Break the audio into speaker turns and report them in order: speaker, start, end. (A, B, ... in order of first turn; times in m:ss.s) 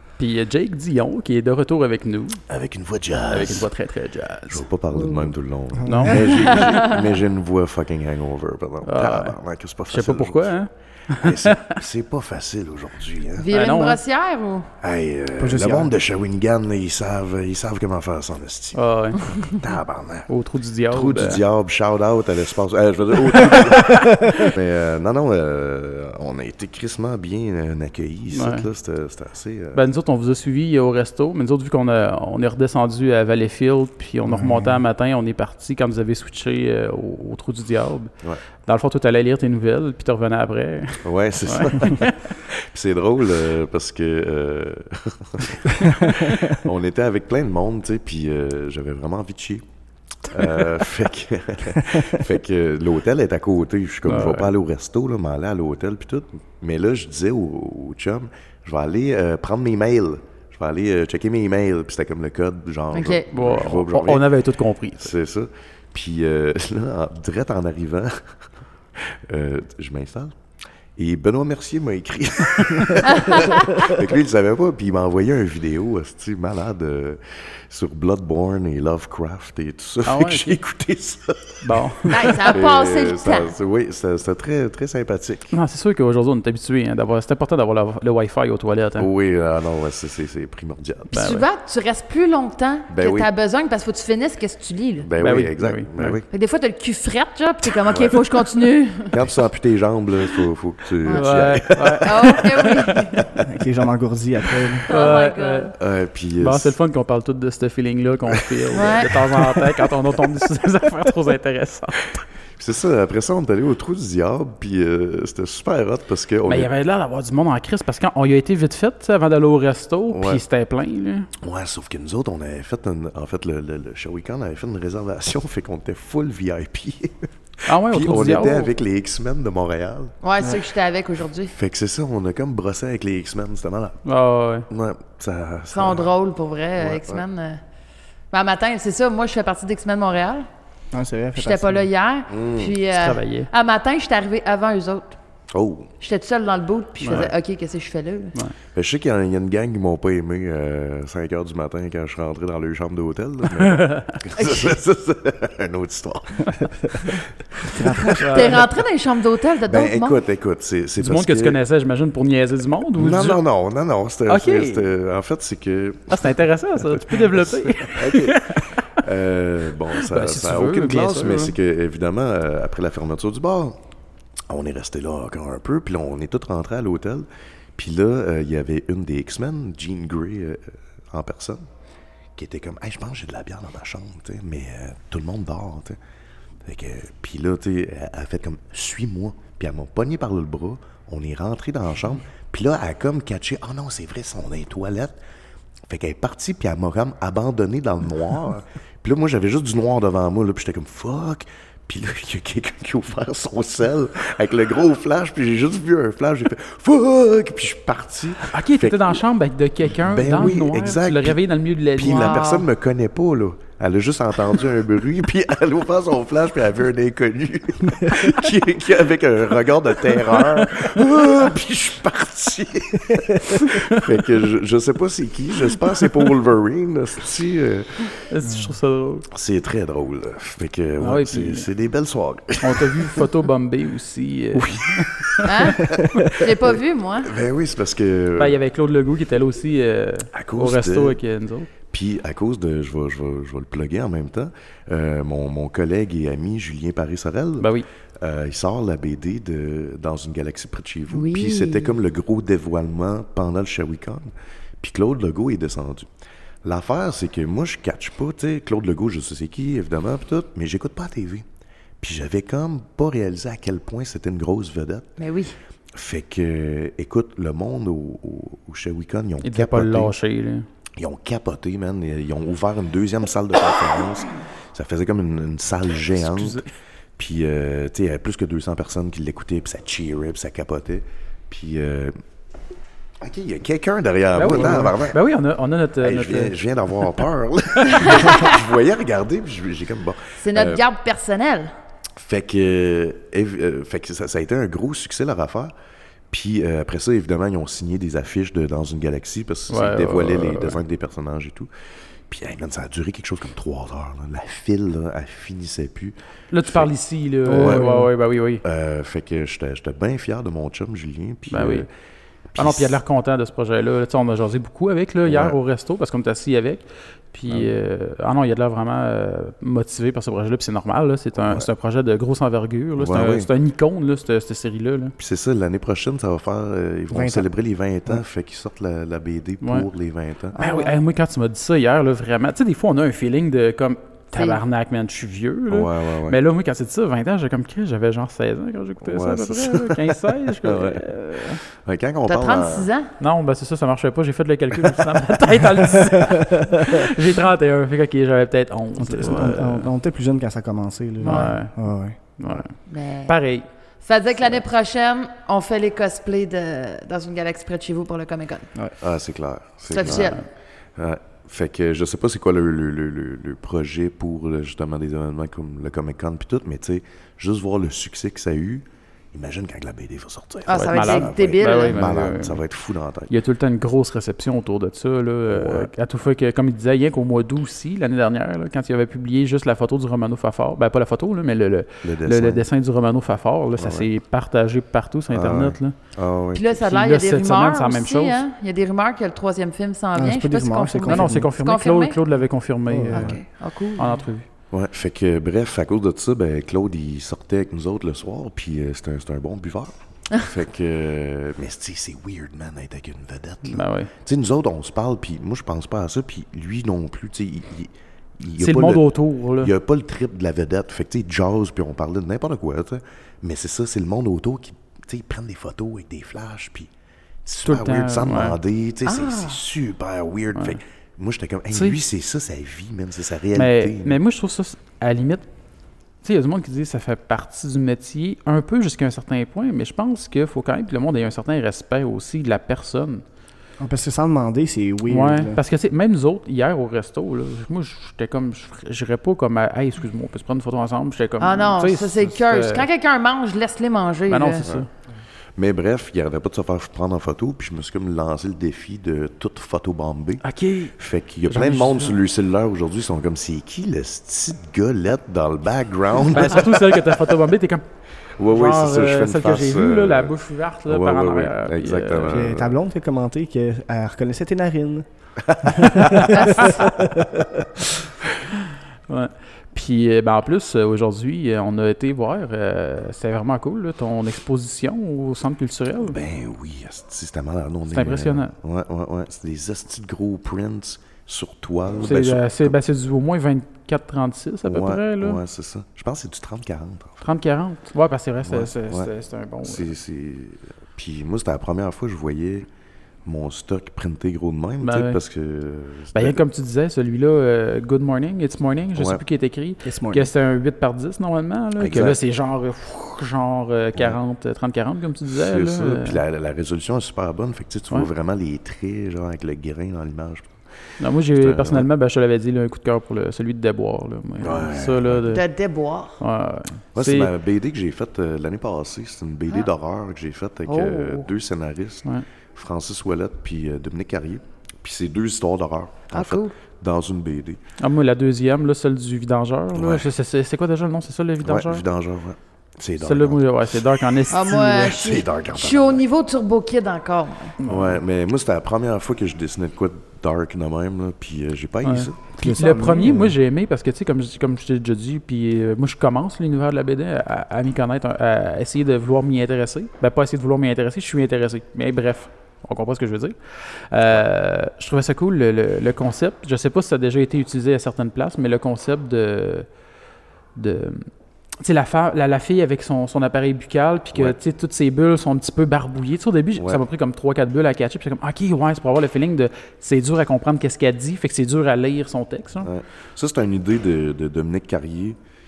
0:00.2-0:02.4 A
0:02.5-0:03.7 B
0:03.3-0:04.6 A
0:04.5-0:10.5 B
0:05.8-0:06.3 C
0:05.8-0:06.9 A
0:06.5-0:07.0 D
0:08.8-0:09.4 A
0:09.9-0:11.8 A
0:11.1-0:13.5 B
0:13.4-0:14.7 D
0:13.5-0:14.0 A
0:14.8-0:20.3 B
0:15.4-0:15.9 C
0:18.7-0:19.5 A
0:20.3-0:21.4 A
0:20.9-0:29.8 B
0:23.9-0:24.3 C
0:28.3-0:28.7 A
0:29.7-0:38.1 A
0:34.2-0:34.8 C
0:38.6-0:42.2 A
0:41.0-0:49.6 B
0:50.3-1:04.3 B
0:54.0-0:54.5 A
1:02.9-1:03.2 D
1:03.3-1:05.1 A
1:04.9-1:08.3 B
1:09.0-1:10.3 B
1:11.0-1:25.6 B
1:12.6-1:13.1 A
1:13.1-1:13.8 D
1:20.0-1:20.6 A
1:21.6-1:22.4 A
1:22.1-1:23.5 D
1:25.5-1:29.1 A
1:29.0-1:31.1 B
1:31.1-1:31.5 A
1:31.1-1:35.1 D
1:32.9-1:33.3 B
1:35.0-1:36.2 B
1:35.2-1:36.2 A
1:36.3-1:39.2 D
1:37.9-1:38.2 B
1:39.1-1:43.2 B
1:41.1-1:42.9 A
1:42.0-1:43.2 D
1:43.4-1:44.9 C
1:44.9-1:45.7 D
1:44.9-1:45.8 A
1:45.8-1:46.7 B
1:46.4-1:52.2 A
1:48.7-1:49.2 D
1:52.6-1:56.7 B
1:56.4-2:01.3 A
2:00.1-2:00.4 B
2:01.4-2:10.1 B
2:07.6-2:08.7 A
2:10.2-2:11.5 D
2:11.5-2:14.0 B
2:14.0-2:14.7 A
2:14.7-2:16.1 B
2:15.7-2:17.6 D
2:16.8-2:17.2 B
2:18.3-2:20.5 D
2:20.9-2:21.9 C
2:21.4-2:25.2 D
2:22.3-2:22.7 B
2:22.9-2:23.5 A
2:25.5-2:25.9 B
2:26.0-2:28.3 D
2:27.0-2:27.3 A
2:28.7-2:37.8 B
2:33.6-2:34.2 A
2:34.4-2:34.7 D
2:37.7-2:38.6 C
2:38.2-2:38.6 A
2:38.2-2:40.2 D
2:39.7-2:41.6 B
2:41.0-2:43.4 A
2:43.0-2:53.8 B
2:44.3-2:44.9 A
2:46.1-2:48.8 A
2:50.0-2:51.5 A
2:54.5-3:01.7 B
3:02.4-3:06.0 B
3:06.6-3:15.1 B
3:15.9-3:29.2 B
3:28.5-3:32.4 A
3:30.0-3:31.4 B
3:31.9-3:48.1 B
3:32.0-3:32.7 D
3:40.3-3:40.9 A
3:43.6-3:44.0 A
3:48.3-3:49.3 A
3:48.4-3:48.7 C
3:49.3-3:53.2 B
3:51.0-3:51.7 A
3:52.6-3:55.8 A
3:54.5-3:56.4 B
3:55.4-3:57.3 D
3:57.2-3:58.6 B
3:58.4-4:01.7 A
4:00.3-4:01.2 B
4:01.9-4:07.7 B
4:08.2-4:16.1 B
4:11.1-4:12.0 D
4:16.6-4:21.4 B
4:22.0-4:25.2 B
4:25.2-4:25.6 D
4:25.9-4:30.1 B
4:29.4-4:30.7 A
4:31.0-4:36.6 B
4:36.1-4:36.7 A
4:37.2-4:42.2 B
4:43.2-4:45.2 B
4:44.3-4:46.5 A
4:46.0-4:50.8 B
4:48.0-4:48.6 D
4:50.4-4:51.7 D
4:52.2-4:55.7 B
4:56.3-5:01.7 B
4:59.7-5:00.8 A
5:02.3-5:06.9 B
5:06.5-5:08.6 A
5:07.4-5:08.0 B
5:07.5-5:08.1 C
5:08.6-5:11.8 B
5:11.5-5:11.9 A
5:12.5-5:12.9 B
5:12.6-5:25.1 A
5:15.2-5:15.6 B
5:21.4-5:21.7 B
5:23.0-5:23.5 B
5:25.2-5:30.6 B
5:27.1-5:27.5 C
5:30.5-5:31.0 D
5:30.6-5:41.6 A
5:34.3-5:34.6 D
5:35.7-5:36.4 B
5:39.0-5:42.9 B
5:42.3-5:43.1 D
5:43.2-5:49.9 A
5:46.2-5:47.0 C
5:49.0-5:52.2 C
5:51.2-5:51.8 A
5:51.2-5:51.5 D
5:52.4-5:53.6 A
5:52.9-5:53.4 D
5:54.0-5:58.7 D
5:59.0-6:00.4 B
5:59.9-6:00.4 D
6:00.0-6:00.4 A
6:01.0-6:13.3 B
6:10.7-6:11.9 D
6:10.7-6:12.6 A
6:13.3-6:25.9 A
6:15.4-6:15.9 B
6:22.0-6:22.6 B
6:23.8-6:24.1 B
6:25.3-6:26.8 B
6:26.5-6:32.2 D
6:26.8-6:28.4 A
6:30.1-6:31.5 C
6:31.0-6:33.4 A
6:32.9-6:33.4 C
6:33.1-6:34.2 D
6:34.0-6:34.4 A
6:34.7-6:56.9 B
6:43.6-6:44.1 A
6:48.6-6:49.7 A
6:57.4-7:04.2 B
6:57.6-6:58.6 A
6:59.0-6:59.6 D
7:01.7-7:02.0 A
7:03.5-7:05.5 A
7:06.2-7:13.2 A
7:13.8-7:15.6 C
7:15.1-7:22.9 A
7:21.4-7:24.6 D
7:24.3-7:24.9 A
7:25.6-7:30.4 B
7:30.4-7:30.9 A
7:31.0-7:37.0 B
7:31.5-7:32.2 A
7:36.2-7:37.8 A
7:38.4-7:40.3 B
7:38.5-7:42.5 A
7:40.9-7:42.8 B
7:42.3-7:45.0 C
7:45.4-7:46.4 B
7:45.6-7:47.6 C
7:45.8-7:46.8 A
7:46.4-7:46.7 D
7:49.1-7:56.2 A
7:56.0-8:02.8 B
7:57.9-7:58.5 A
8:02.0-8:05.4 A
8:04.6-8:07.2 B
8:07.2-8:09.9 A
8:08.4-8:09.1 B
8:09.6-8:12.7 B
8:13.2-8:16.4 B
8:14.8-8:15.2 A
8:16.1-8:26.2 A
8:19.0-8:19.2 B
8:19.8-8:20.3 C
8:21.8-8:22.2 B
8:25.3-8:30.6 B
8:31.0-8:35.4 A
8:31.4-8:31.9 B
8:34.4-8:35.3 B
8:35.2-8:36.2 D
8:36.2-8:37.3 A
8:36.9-8:47.6 B
8:40.7-8:41.3 D
8:46.1-8:46.5 D
8:47.8-8:51.8 A
8:49.7-8:50.1 B
8:51.4-8:53.7 B
8:53.0-8:55.0 A
8:54.3-8:57.6 D
8:54.7-8:56.0 B
8:57.6-8:58.0 A
8:57.6-9:02.2 B
9:01.8-9:19.7 A
9:02.4-9:03.4 C
9:20.6-9:21.1 A
9:21.6-9:32.7 A
9:32.6-9:35.2 B